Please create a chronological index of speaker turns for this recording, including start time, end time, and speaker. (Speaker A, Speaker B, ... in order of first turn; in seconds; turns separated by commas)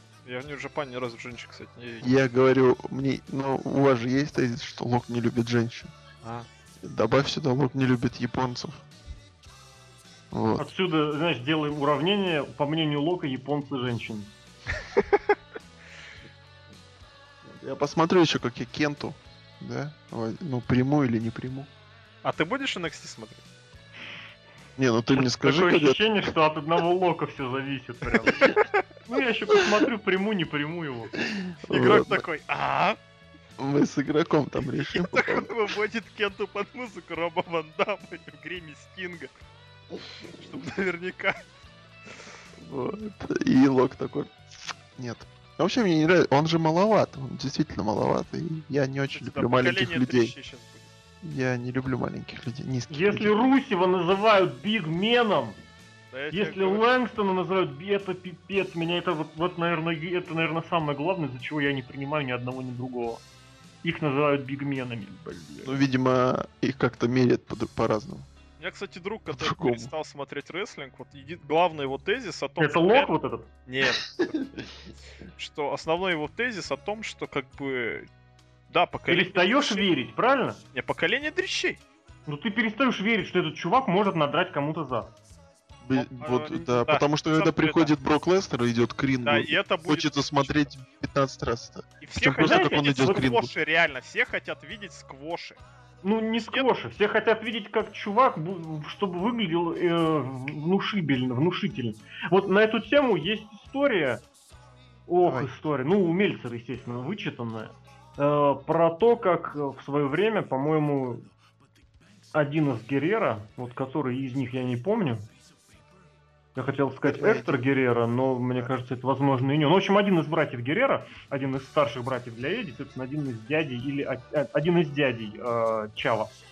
Speaker A: 0.2-2.2, Speaker B: 2.0-5.9, Speaker A: 6.2-6.5, Speaker B: 6.8-8.8, Speaker B: 10.3-10.7, Speaker C: 10.6-14.3, Speaker B: 17.5-21.7, Speaker A: 22.2-23.4, Speaker B: 24.8-26.0, Speaker C: 25.1-28.5, Speaker C: 29.1-31.2, Speaker B: 31.2-32.2, Speaker A: 31.7-33.0, Speaker B: 33.6-35.6, Speaker A: 34.8-39.3, Speaker A: 40.3-41.4, Speaker B: 42.6-50.3, Speaker A: 49.1-50.9, Speaker B: 51.2-53.4, Speaker C: 52.9-55.6, Speaker A: 56.1-56.9, Speaker C: 56.3-63.2, Speaker C: 63.8-65.8, Speaker B: 65.6-68.3, Speaker A: 68.6-73.1, Speaker B: 69.3-69.9, Speaker C: 72.6-73.5, Speaker A: 73.7-74.2, Speaker B: 74.0-74.6, Speaker A: 75.4-78.1, Speaker A: 78.7-79.9, Speaker C: 79.1-80.6, Speaker A: 80.7-81.8, Speaker C: 82.3-85.1, Speaker B: 85.8-93.5, Speaker A: 86.0-87.9, Speaker A: 89.2-90.7, Speaker A: 92.0-95.6, Speaker C: 92.4-93.3, Speaker C: 96.0-104.2, Speaker A: 96.4-96.7, Speaker C: 105.1-111.3, Speaker B: 105.2-105.5, Speaker C: 112.3-115.3, Speaker C: 116.5-126.3, Speaker B: 117.0-117.6